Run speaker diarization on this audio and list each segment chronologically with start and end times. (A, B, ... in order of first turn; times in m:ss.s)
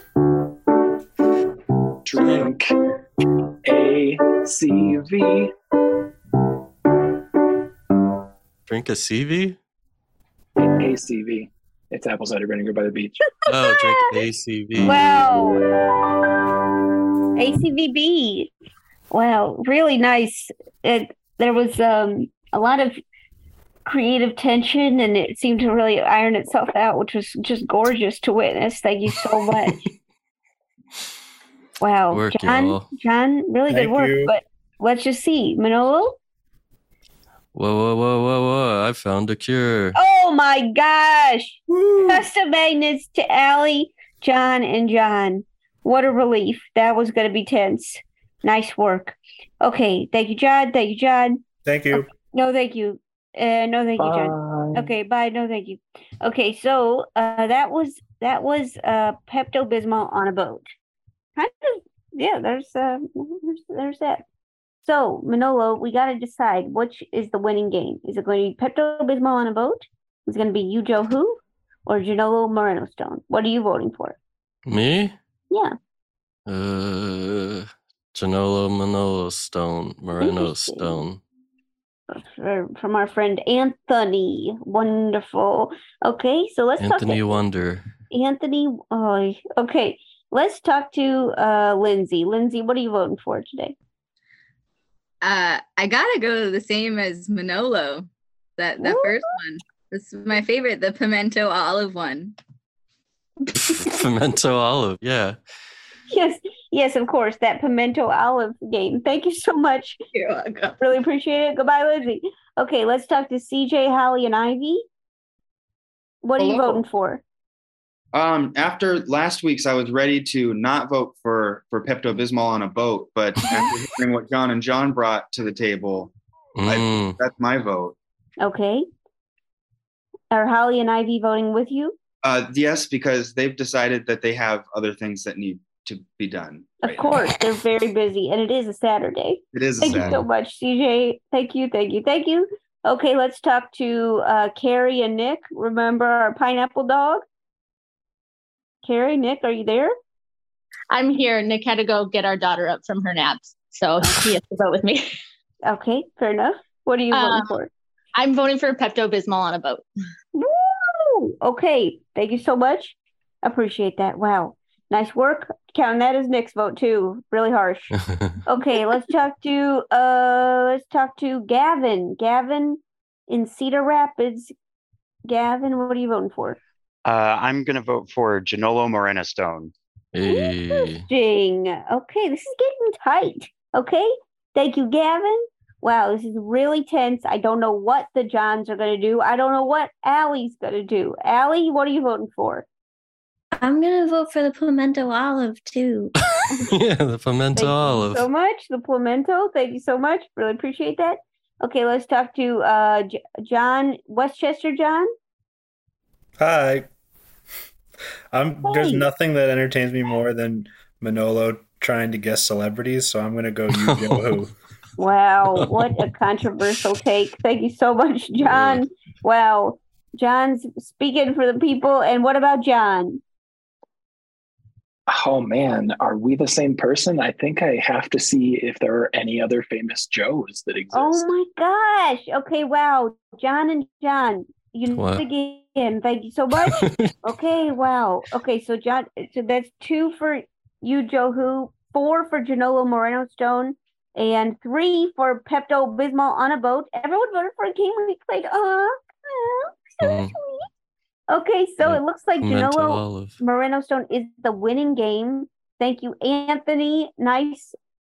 0:02.0-0:02.7 A
0:02.2-0:02.5 B
0:03.6-0:05.5 A
0:08.7-0:09.6 B
0:10.6-0:13.2 A
0:13.5-0:15.1 B
0:13.6-0:13.9 C
0:14.8-0:15.6 C
0:17.4-0:18.5 C
0:19.1-0:23.0 C
0:23.9-0:29.8 C
0:31.8-0:36.2 C
0:32.1-0:32.9 B
0:33.7-0:34.3 D
0:37.5-0:40.0 B
0:40.0-1:00.6 C
0:41.7-0:42.1 D
0:51.6-0:52.1 D
0:54.0-0:54.9 A
1:01.4-1:04.2 C
1:04.8-1:14.2 C
1:14.7-1:15.2 B
1:16.5-1:21.2 B
1:20.2-1:21.0 C
1:22.1-1:27.4 C
1:26.8-1:27.9 B
1:28.1-1:33.8 C
1:35.2-1:42.4 E
1:38.8-1:39.3 C
1:43.5-1:45.4 B
1:46.1-1:50.0 C
1:50.1-1:50.8 E
1:50.8-1:54.8 C
1:56.2-1:57.2 C
1:56.4-1:56.8 E
1:58.1-2:06.1 F
2:06.6-2:07.2 B
2:06.7-2:08.0 F
2:08.4-2:08.9 C
2:10.3-2:12.0 C
2:12.2-2:17.1 F
2:16.8-2:27.2 C
2:19.5-2:20.2 F
2:28.8-2:29.9 C
2:30.9-2:35.1 G
2:34.0-2:34.3 C
2:35.6-2:37.7 C
2:37.1-2:37.5 G
2:38.2-2:39.8 G
2:40.4-2:54.5 C
2:55.3-2:56.6 C
2:57.0-2:59.7 H
3:00.1-3:01.1 B
3:00.3-3:12.7 C
3:13.6-3:16.1 I
3:16.4-3:18.3 B
3:17.6-3:25.1 C
3:26.4-3:26.9 D
3:28.3-3:34.5 D
3:28.6-3:29.1 C
3:33.8-3:34.4 B
3:35.0-3:43.2 C
3:35.6-3:35.8 B
3:38.4-3:38.8 B
3:45.1-3:51.3 A
3:50.9-4:10.6 C
3:54.9-3:55.2 B
3:56.5-3:57.1 B
4:10.0-4:10.4 B
4:11.3-4:17.8 C
4:11.8-4:13.4 B